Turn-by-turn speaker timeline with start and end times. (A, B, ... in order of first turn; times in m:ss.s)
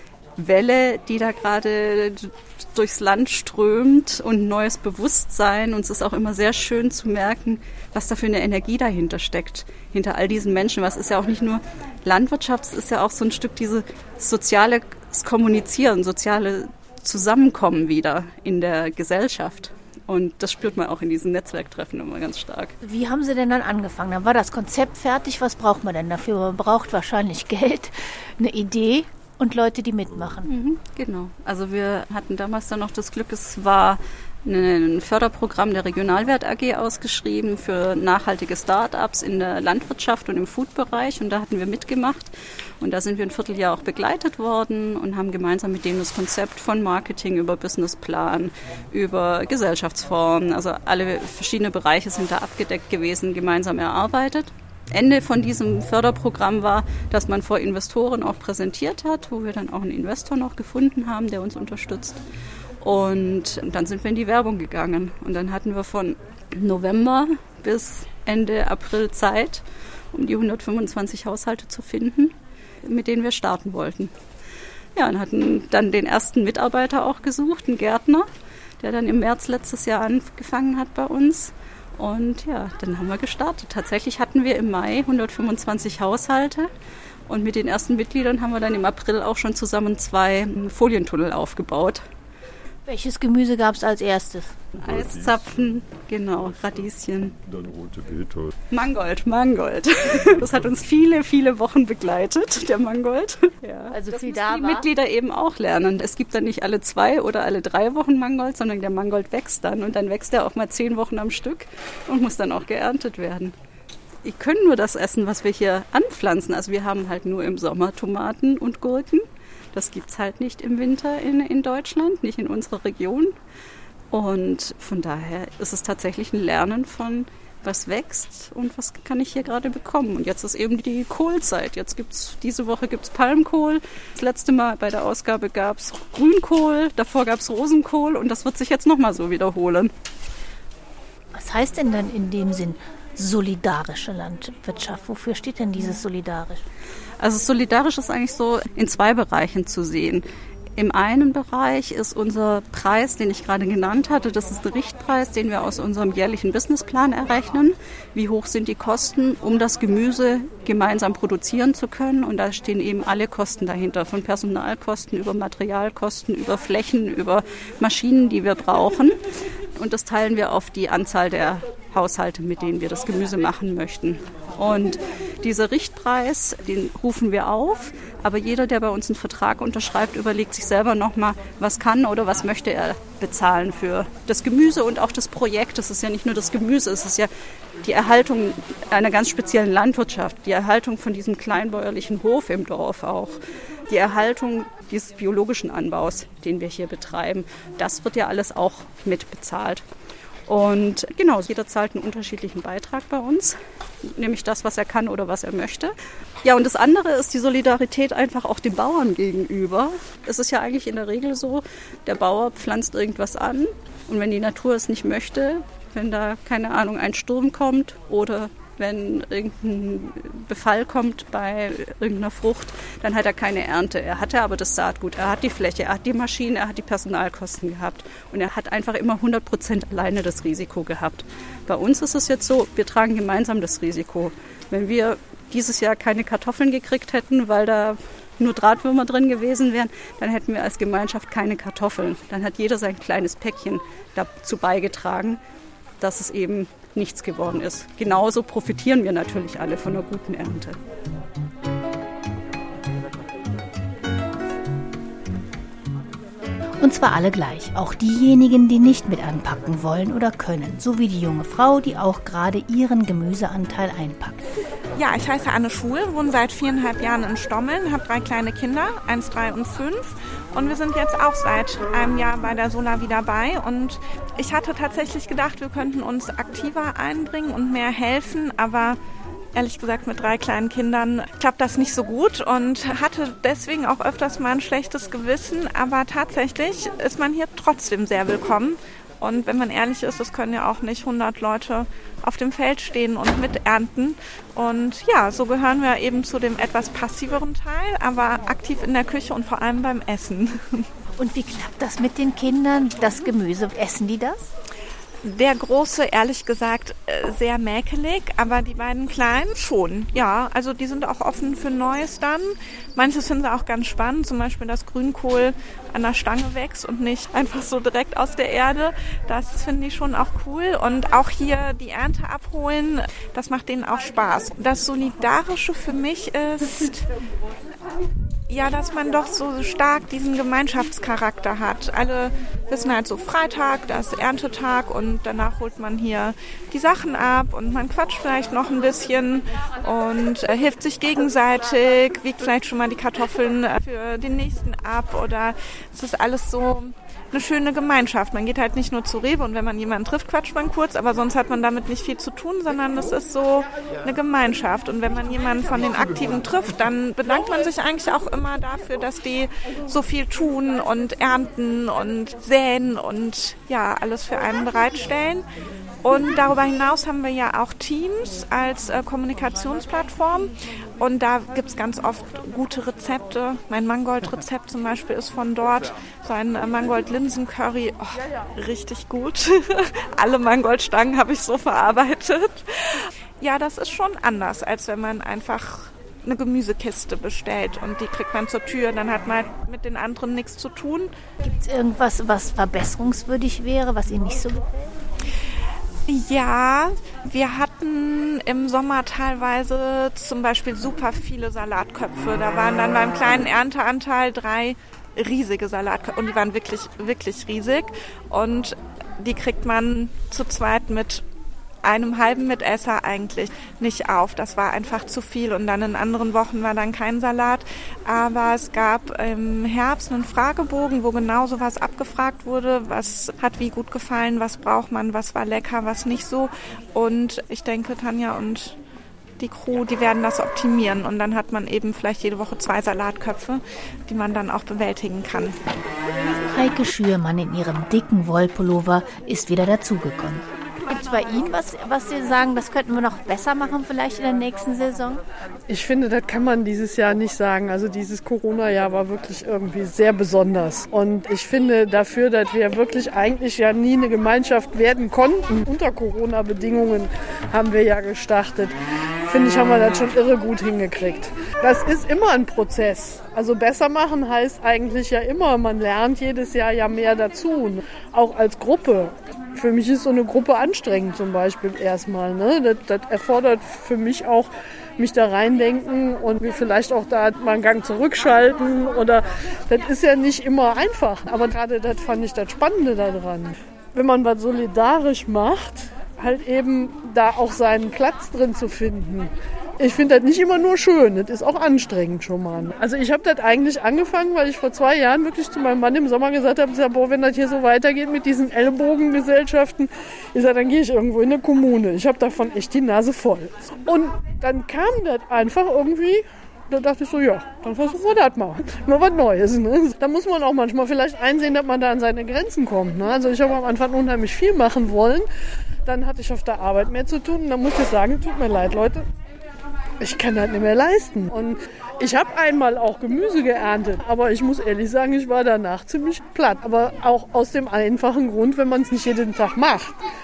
0:00.4-0:22.7 A
0:22.8-0:30.5 B
0:30.5-1:02.2 A
1:02.8-1:14.1 A
1:15.0-1:18.3 A
1:18.8-1:26.7 A
1:27.3-1:32.0 A
1:32.9-1:34.6 B
1:34.8-1:35.6 C
1:34.8-1:37.4 A
1:36.4-1:38.6 C
1:38.7-1:53.5 A
1:43.9-1:44.9 B
1:54.2-2:03.3 A
2:04.1-2:19.9 A
2:21.3-2:26.6 B
2:27.2-2:30.2 A
2:30.8-2:49.2 A
2:49.8-3:07.3 A
3:07.8-3:13.4 A
3:13.9-3:19.8 A
3:20.5-4:05.4 A
4:06.0-4:10.8 A
4:16.8-4:24.4 B
4:25.0-4:39.0 D
4:39.6-5:00.9 D
5:01.2-5:04.5 B
5:05.2-5:27.1 D
5:28.5-6:05.4 D
6:06.0-6:31.1 D
6:31.4-6:34.9 B
6:36.1-6:51.2 D
6:51.8-7:08.8 D
7:09.4-7:15.6 D
7:16.5-7:25.2 B
7:25.7-7:38.8 E
7:39.3-8:35.3 E
8:35.8-8:39.1 E
8:40.0-8:50.0 E